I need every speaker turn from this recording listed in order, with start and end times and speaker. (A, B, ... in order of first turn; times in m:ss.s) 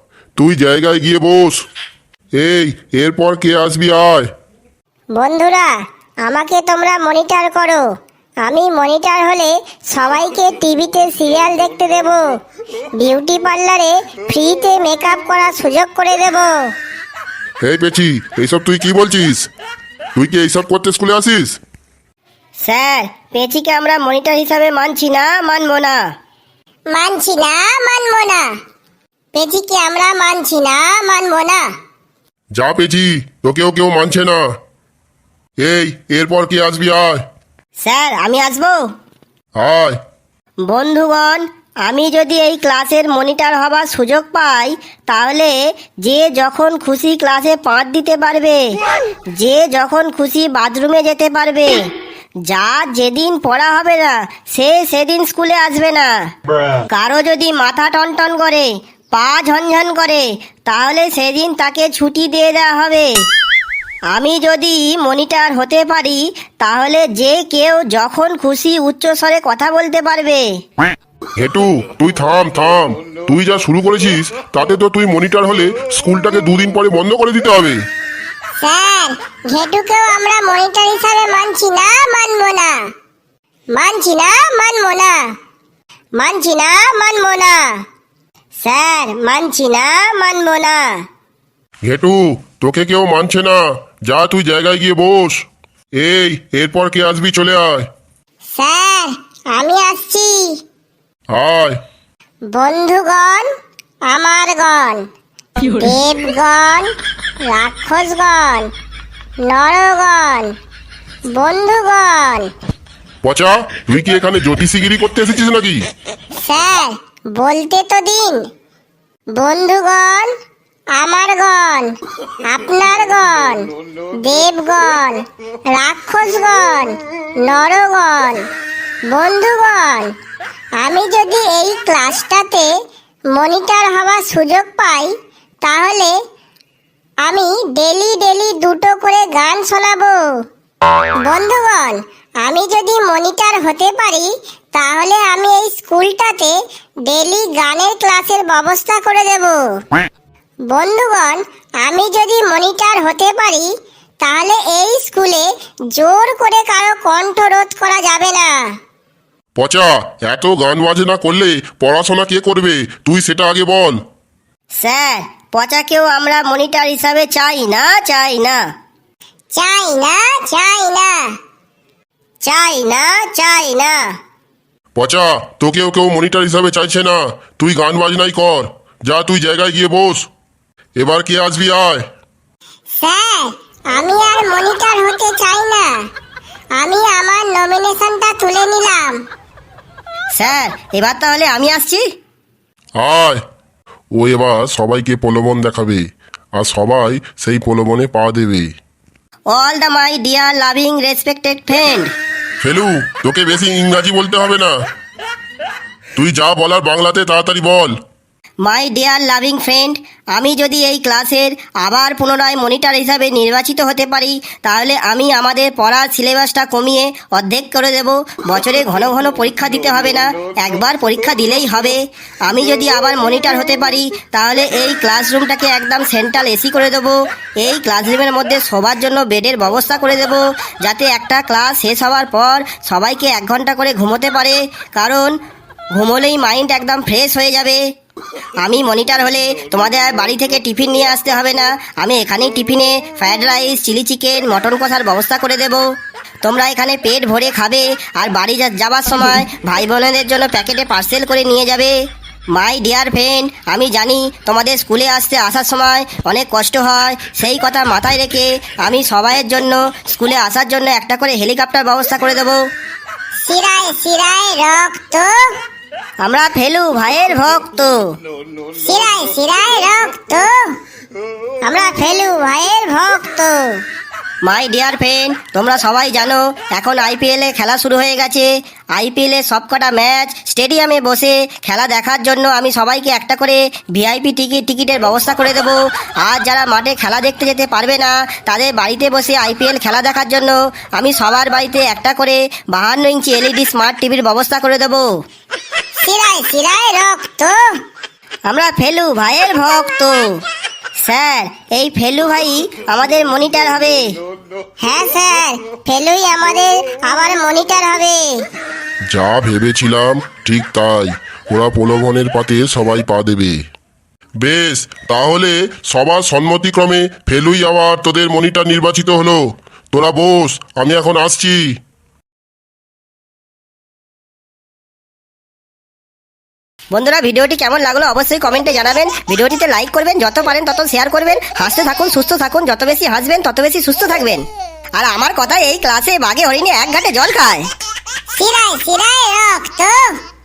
0:00.4-0:01.6 A
0:02.4-0:04.3 A
0:05.1-0:07.8 B
0:08.4-0:12.3 B
0:13.0-0:16.7 B
0:17.6-0:19.5 A
0:20.2-0:21.6 A
0:22.6-0:26.1 C
0:26.9-0:28.6 B
0:29.3-0:31.7 B
0:32.6-0:34.4 A
0:35.6-0:37.2 A
0:37.8-0:38.8 C
0:39.6-0:40.0 A
0:40.7-0:48.6 C
0:49.4-0:51.8 C
0:52.5-0:56.1 C
0:56.9-1:03.1 C
1:04.1-1:10.5 C
1:11.4-1:17.8 A
1:18.6-1:22.9 B
1:23.7-1:25.4 B
1:26.2-1:27.8 B
1:28.6-1:31.0 B
1:31.8-1:37.9 A
1:38.5-1:40.6 B
1:41.3-1:41.8 A
1:42.5-1:43.5 B
1:44.1-1:45.0 B
1:45.6-1:46.9 B
1:47.4-1:48.7 B
1:49.4-1:50.5 B
1:51.3-1:52.5 B
1:53.2-1:55.8 A
1:56.4-1:58.5 B
1:59.3-2:00.3 B
2:00.9-2:08.4 B
2:09.1-2:10.1 B
2:10.8-2:12.7 B
2:13.3-2:15.1 B
2:15.6-2:16.2 B
2:17.2-2:20.2 B
2:21.2-2:29.6 B
2:30.7-2:33.7 B
2:34.2-2:38.7 B
2:39.6-2:44.0 A
2:44.8-2:48.7 C
2:49.5-2:51.4 B
2:52.5-2:54.1 B
2:55.0-3:00.3 A
3:01.0-3:02.0 A
3:02.9-3:06.1 B
3:06.7-3:09.2 B
3:10.4-3:12.0 C
3:13.0-3:13.4 A
3:14.2-3:16.0 A
3:16.6-3:18.7 A
3:19.5-3:22.1 C
3:22.6-3:24.8 A
3:26.2-3:27.9 A
3:28.6-3:55.3 C
3:56.0-3:57.8 C
3:58.6-4:05.8 C
4:06.4-4:11.9 C
4:12.6-4:22.6 C
4:23.4-4:25.5 B
4:26.2-4:28.0 C
4:28.8-4:30.6 B
4:31.6-4:33.6 B
4:34.4-4:55.0 C
4:56.0-4:57.6 B
4:58.5-5:00.3 C
5:01.0-5:04.1 C
5:04.8-5:08.4 B
5:09.1-5:13.6 A
5:14.4-5:19.4 A
5:19.9-5:21.6 A
5:26.9-5:37.7 C
5:38.3-5:40.2 B